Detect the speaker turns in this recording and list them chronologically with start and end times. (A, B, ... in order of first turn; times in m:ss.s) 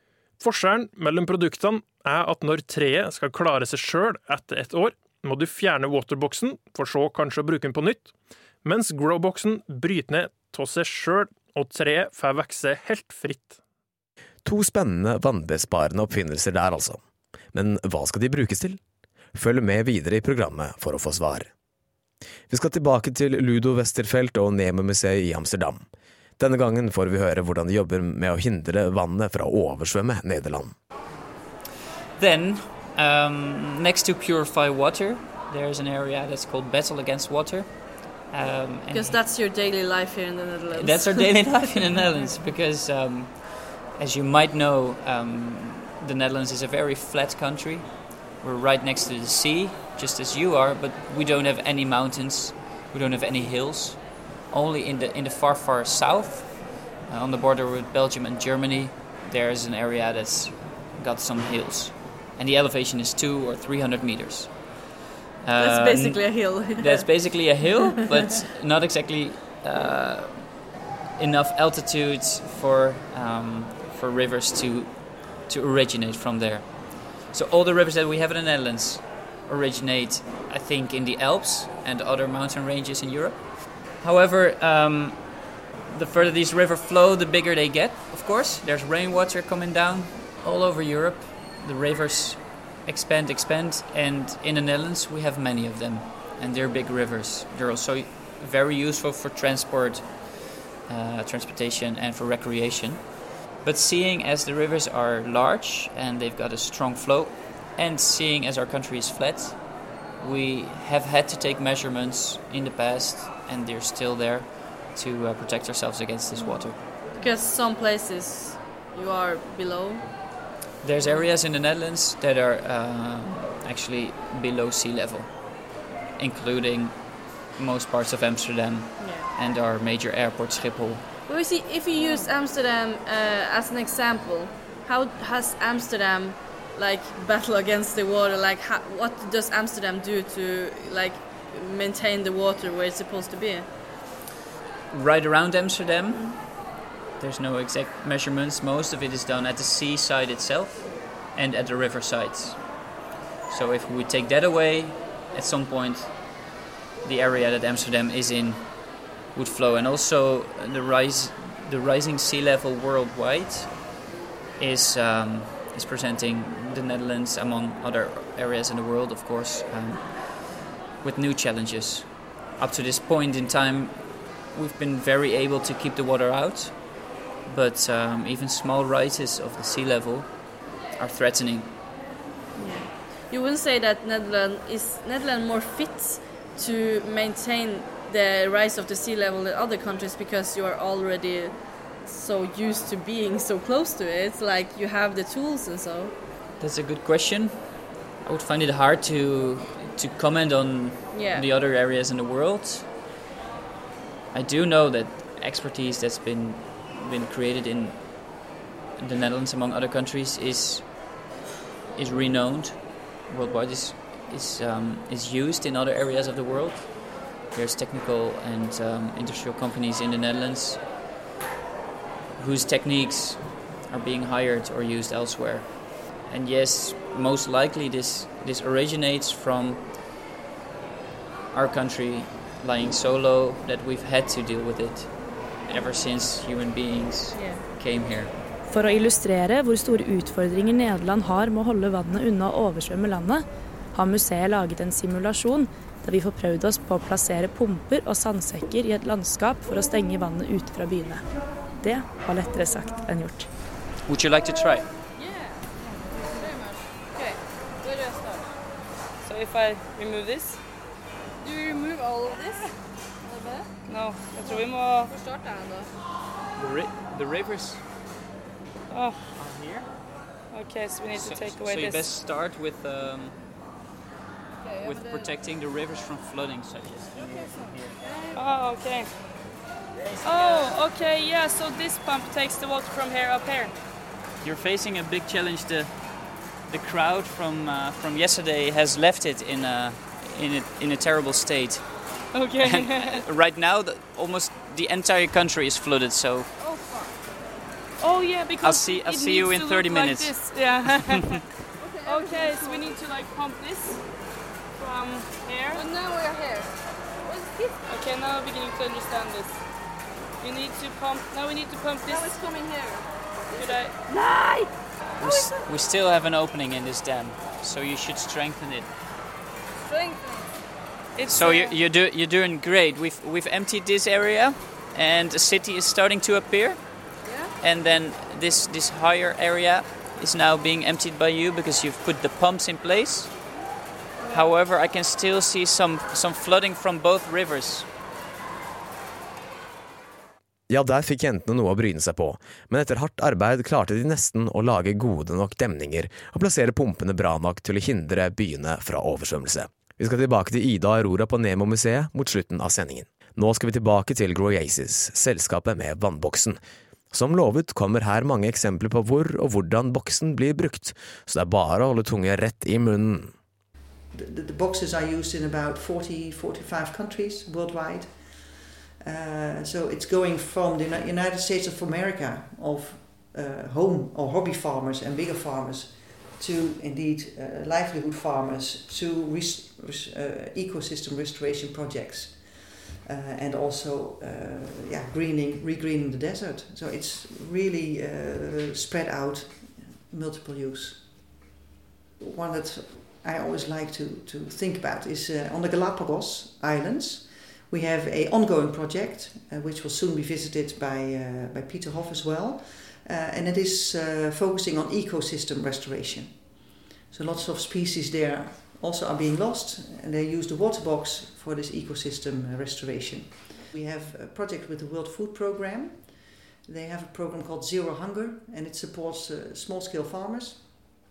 0:00.4-0:08.1 A
0:08.6-0:13.6 A
0:14.4-0:18.8 B
0:19.3-0:21.5 B
0:22.5-0:25.8 B
0:26.4-0:30.7 B
0:32.2-0:39.2 C
0:38.9-0:41.5 D
0:40.7-1:04.9 C
1:05.4-1:10.6 C
1:05.6-1:07.3 D
1:11.2-1:40.3 C
1:40.8-1:56.8 C
1:56.4-1:56.6 D
1:57.1-2:00.1 D
2:00.8-2:11.0 C
2:09.0-2:09.3 D
2:11.2-2:23.7 D
2:24.9-2:32.9 C
2:26.1-2:26.4 D
2:33.5-2:36.5 C
2:37.0-2:44.0 C
2:44.6-3:01.8 C
3:02.5-3:16.1 D
3:16.6-3:22.9 C
3:21.1-3:21.5 D
3:24.3-3:31.1 C
3:31.9-3:40.8 C
3:42.4-3:49.9 C
3:51.5-3:58.3 C
3:57.3-3:57.6 D
3:58.7-4:13.5 E
4:14.0-4:14.9 C
4:15.2-4:15.6 D
4:16.2-4:18.5 D
4:19.2-4:20.6 F
4:21.4-4:22.7 D
4:23.2-4:23.7 D
4:23.8-4:25.1 F
4:24.4-4:25.9 D
4:26.6-4:27.8 C
4:28.9-4:29.2 F
4:29.3-4:29.9 C
4:30.5-4:32.1 F
4:31.1-4:33.4 C
4:34.6-4:35.1 D
4:34.8-4:38.0 C
4:38.3-4:39.1 F
4:40.2-4:43.7 F
4:44.4-4:56.5 C
4:52.3-4:53.2 F
4:56.6-4:57.1 D
4:58.0-5:01.4 F
4:58.6-5:01.2 C
5:01.8-5:02.9 D
5:02.0-5:05.9 F
5:05.8-5:06.7 D
5:07.3-5:07.7 D
5:07.9-5:09.6 F
5:10.4-5:12.4 F
5:12.1-5:13.8 D
5:13.5-5:14.7 F
5:15.2-5:18.9 C
5:19.8-5:20.5 D
5:21.1-5:21.7 F
5:21.3-5:33.4 C
5:27.2-5:27.5 D
5:34.3-5:37.9 C
5:40.7-5:56.6 B
5:57.1-6:03.3 B
6:04.1-6:31.4 G
6:32.2-7:00.9 G